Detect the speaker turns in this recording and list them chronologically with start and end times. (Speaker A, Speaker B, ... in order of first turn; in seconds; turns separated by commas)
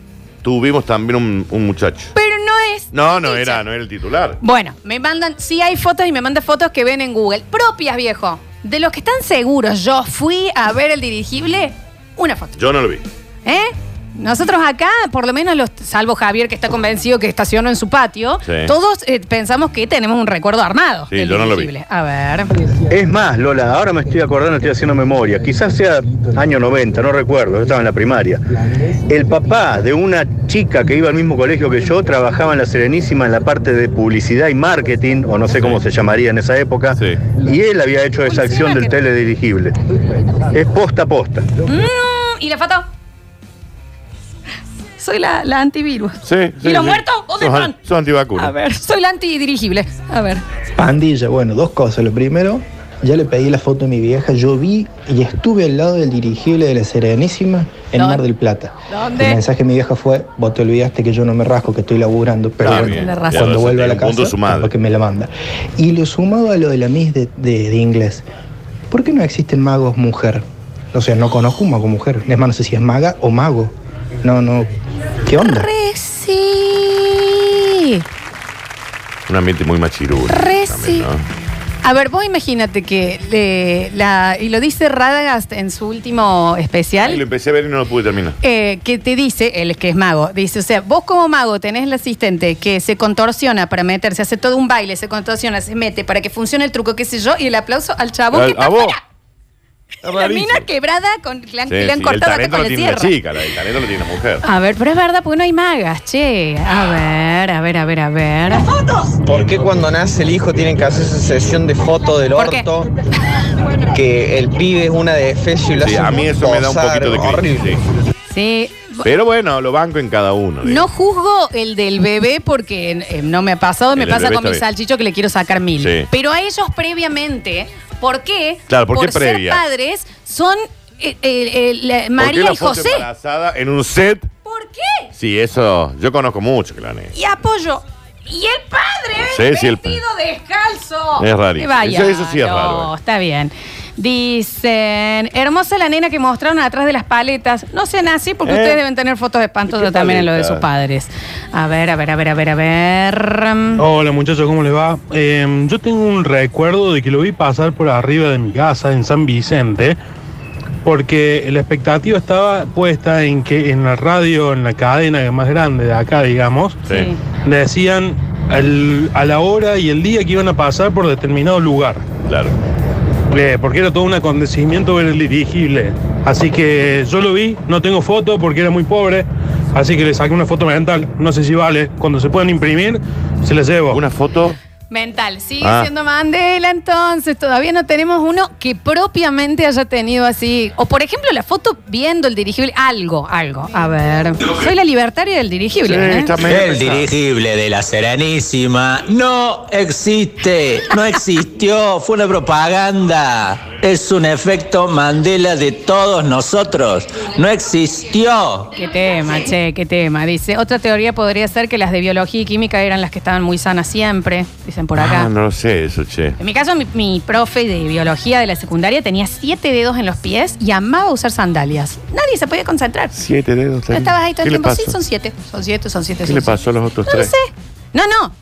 Speaker A: 0.4-2.1, Speaker B: 2.1-3.6, Speaker A: 2.9-4.4, Speaker B: 4.4-12.6, Speaker A: 12.6-13.0, Speaker B: 13.4-22.5, Speaker A: 18.4-18.7, Speaker A: 21.1-21.7, Speaker C: 22.9-28.4, Speaker C: 29.1-39.7, Speaker B: 38.1-38.9, Speaker C: 40.5-41.4, Speaker B: 41.6-42.9, Speaker B: 45.0-47.7, Speaker A: 46.2-48.5, Speaker B: 48.4-50.4, Speaker D: 50.8-68.2, Speaker B: 57.9-58.2, Speaker B: 58.9-59.4, Speaker A: 62.6-64.7, Speaker B: 62.7-63.6, Speaker D: 68.9-74.7, Speaker D: 75.2-75.7, Speaker B: 75.4-78.0, Speaker A: 79.3-81.2, Speaker B: 80.3-81.0, Speaker B: 81.8-87.2, Speaker A: 87.0-88.4, Speaker B: 88.4-99.0, Speaker A: 98.3-99.0, Speaker A: 100.0-100.7, Speaker B: 100.0-103.2, Speaker A: 101.7-104.4, Speaker B: 104.4-108.7, Speaker E: 109.3-112.8, Speaker A: 109.3-111.6, Speaker B: 112.3-112.7, Speaker E: 113.9-117.7, Speaker A: 115.8-117.8, Speaker B: 118.3-119.1, Speaker A: 119.0-120.8, Speaker B: 120.6-133.1, Speaker A: 123.9-124.6, Speaker A: 125.8-126.1, Speaker A: 128.7-129.6, Speaker A: 132.2-134.3, Speaker B: 134.4-135.1, Speaker A: 135.2-137.1, Speaker B: 137.1-153.8, Speaker A: 139.2-140.0, Speaker A: 141.2-142.9, Speaker A: 148.4-148.8, Speaker A: 149.7-150.7, Speaker F: 153.8-160.0, Speaker F: 160.8-166.8, Speaker A: 166.8-167.1, Speaker B: 166.9-167.2, Speaker F: 167.4-172.0, Speaker A: 172.3-172.5, Speaker F: 173.3-184.0, Speaker A: 183.9-184.6, Speaker B: 184.9-196.3, Speaker A: 185.6-185.9, Speaker A: 195.8-197.1, Speaker G: 196.5-208.6, Speaker B: 208.7-215.3, Speaker A: 215.0-216.4, Speaker B: 216.4-223.1, Speaker A: 223.1-225.0, Speaker B: 223.9-228.3, Speaker A: 226.2-227.3